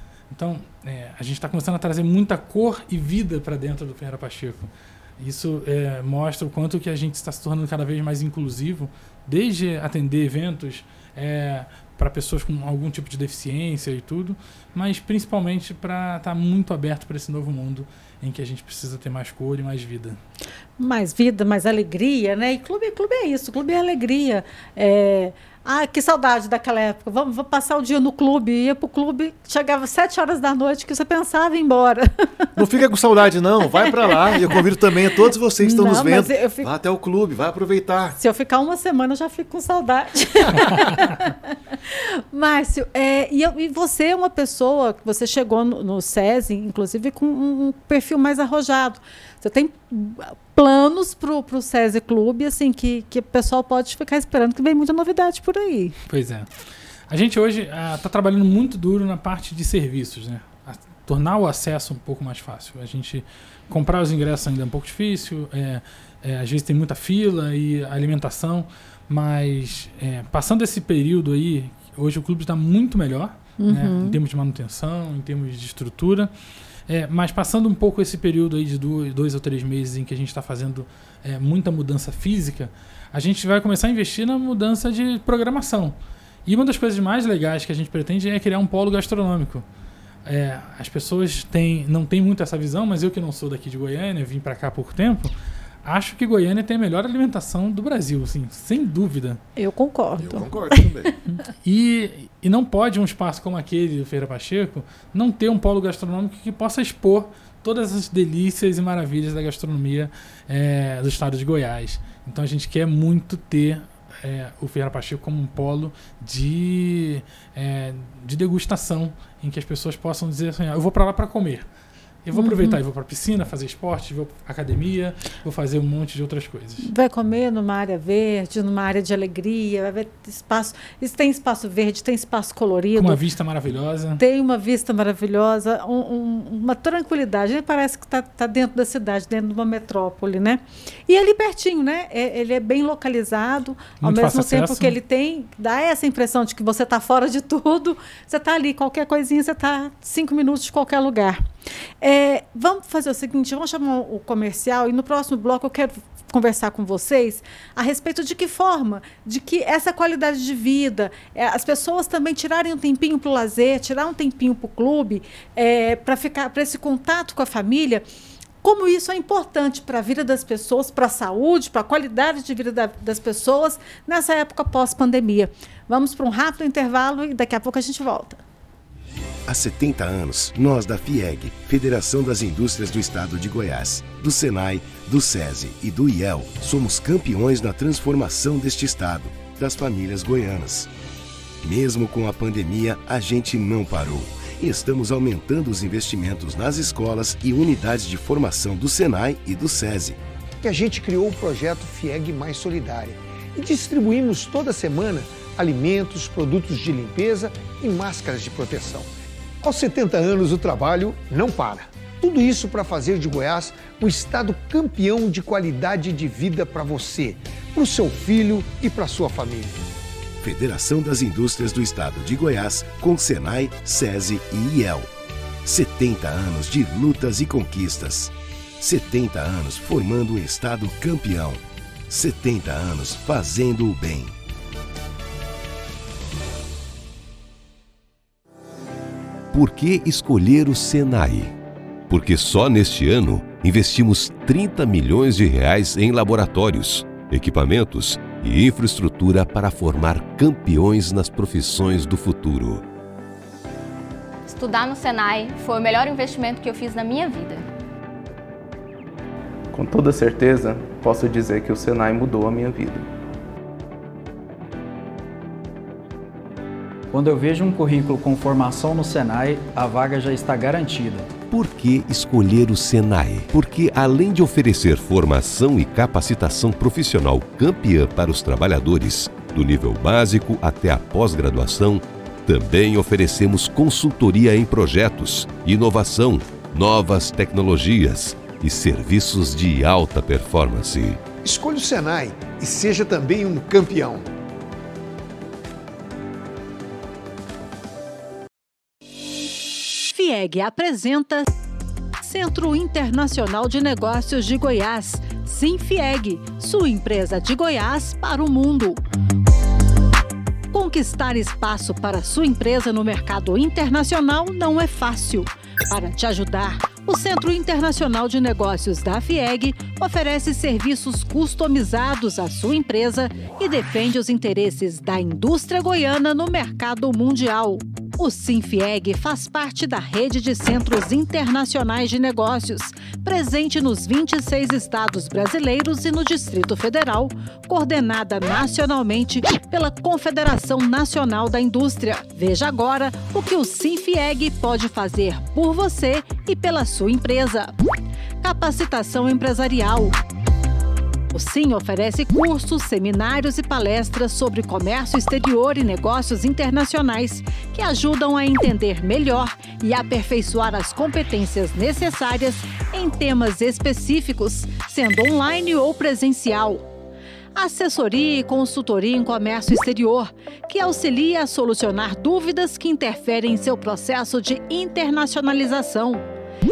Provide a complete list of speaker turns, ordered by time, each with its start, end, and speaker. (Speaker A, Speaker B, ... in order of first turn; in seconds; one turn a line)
Speaker A: 0.3-20.2
Speaker B: 20.8-32.5
Speaker C: 32.5-38.2
Speaker B: 34.1-34.5
Speaker B: 35.6-36.7
Speaker B: 38.2-41.4
Speaker B: 41.9-56.0
Speaker A: 56.1-56.5
Speaker A: 57.1-76.3
Speaker B: 73.6-74.2
Speaker A: 76.9-85.9
Speaker A: 86.5-89.6
Speaker A: 90.2-95.3
Speaker A: 95.8-99.4
Speaker B: 99.6-100.8
Speaker C: 100.2-101.1
Speaker A: 101.6-121.6
Speaker A: 122.2-126.9
Speaker B: 122.3-122.8
Speaker B: 126.8-133.2
Speaker A: 132.9-134.2
Speaker B: 134.2-151.4
Speaker A: 144.0-144.9
Speaker B: 152.0-168.0
Speaker B: 168.6-178.4
Speaker D: 179.4-190.9
Speaker D: 191.6-200.2
Speaker E: 200.6-209.1
Speaker E: 209.6-219.8
Speaker D: 220.4-225.1
Speaker D: 225.6-234.3
Speaker F: 239.5-241.5
Speaker F: 242.1-252.8
Speaker G: 254.5-257.6
Speaker H: 259.7-263.1
Speaker I: 267.1-271.3
Speaker F: 271.5-291.2
Speaker E: 291.4-294.3
Speaker B: 300.1-301.4
Speaker B: 302.2-309.0
Speaker B: 310.7-347.7
Speaker B: 348.4-350.1
Speaker B: 351.3-366.9
Speaker B: 367.6-376.2